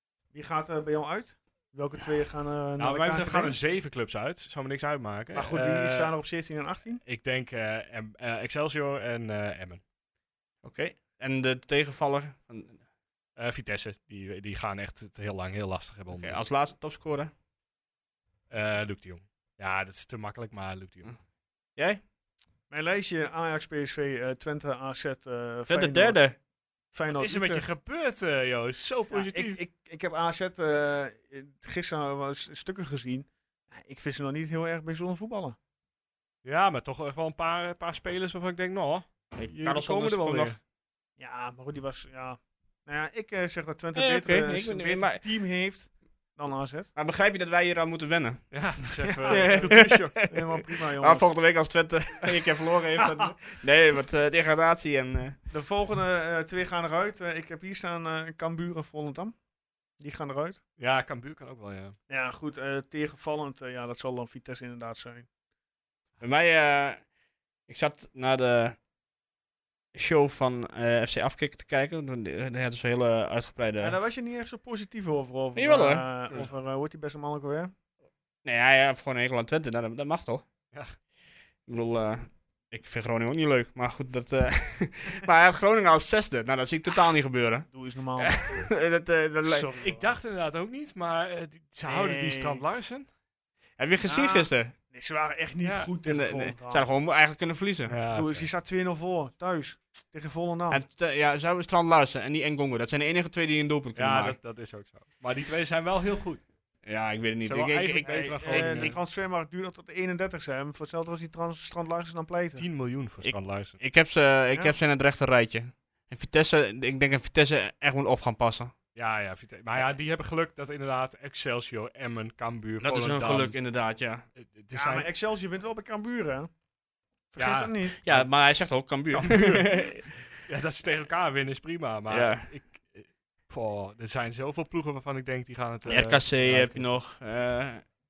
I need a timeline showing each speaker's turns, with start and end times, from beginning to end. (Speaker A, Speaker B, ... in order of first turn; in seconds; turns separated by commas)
Speaker A: 0.3-3.6, Speaker B: 2.8-6.1, Speaker A: 5.3-7.0, Speaker B: 7.0-9.8, Speaker C: 10.6-12.8, Speaker B: 13.4-16.4, Speaker C: 16.1-17.3, Speaker B: 18.5-21.2, Speaker C: 21.8-22.0, Speaker A: 22.7-26.3, Speaker C: 25.7-26.4, Speaker A: 26.9-27.7, Speaker B: 27.1-29.6, Speaker A: 29.1-35.6, Speaker B: 36.4-40.6, Speaker C: 39.4-40.5, Speaker A: 41.2-46.9, Speaker C: 43.9-45.2, Speaker C: 46.9-55.4, Speaker B: 48.5-50.2, Speaker A: 49.3-51.3, Speaker A: 53.0-53.3, Speaker A: 55.5-59.4, Speaker A: 60.0-60.6, Speaker B: 60.8-62.0, Speaker A: 62.1-65.3, Speaker C: 66.2-67.1, Speaker C: 67.7-68.8, Speaker C: 69.9-74.0, Speaker A: 73.8-77.7, Speaker C: 75.5-76.0, Speaker C: 78.4-80.4, Speaker C: 81.7-87.7, Speaker A: 87.7-88.7, Speaker C: 88.2-89.7, Speaker A: 89.4-90.1, Speaker B: 89.8-93.1, Speaker A: 91.8-92.6, Speaker C: 93.8-94.7, Speaker A: 94.0-96.8, Speaker C: 95.6-98.0, Speaker B: 97.9-98.5, Speaker A: 98.1-100.8, Speaker C: 100.7-104.4, Speaker B: 104.0-106.5, Speaker C: 106.8-108.9, Speaker B: 107.4-109.0, Speaker A: 108.0-112.6, Speaker B: 112.6-113.8, Speaker C: 113.2-118.7, Speaker B: 118.9-123.6, Speaker C: 122.8-124.2, Speaker B: 124.3-125.0, Speaker A: 124.7-126.5, Speaker A: 127.3-128.0, Speaker B: 127.4-136.9, Speaker C: 128.0-130.2, Speaker C: 132.1-132.5, Speaker C: 135.8-137.8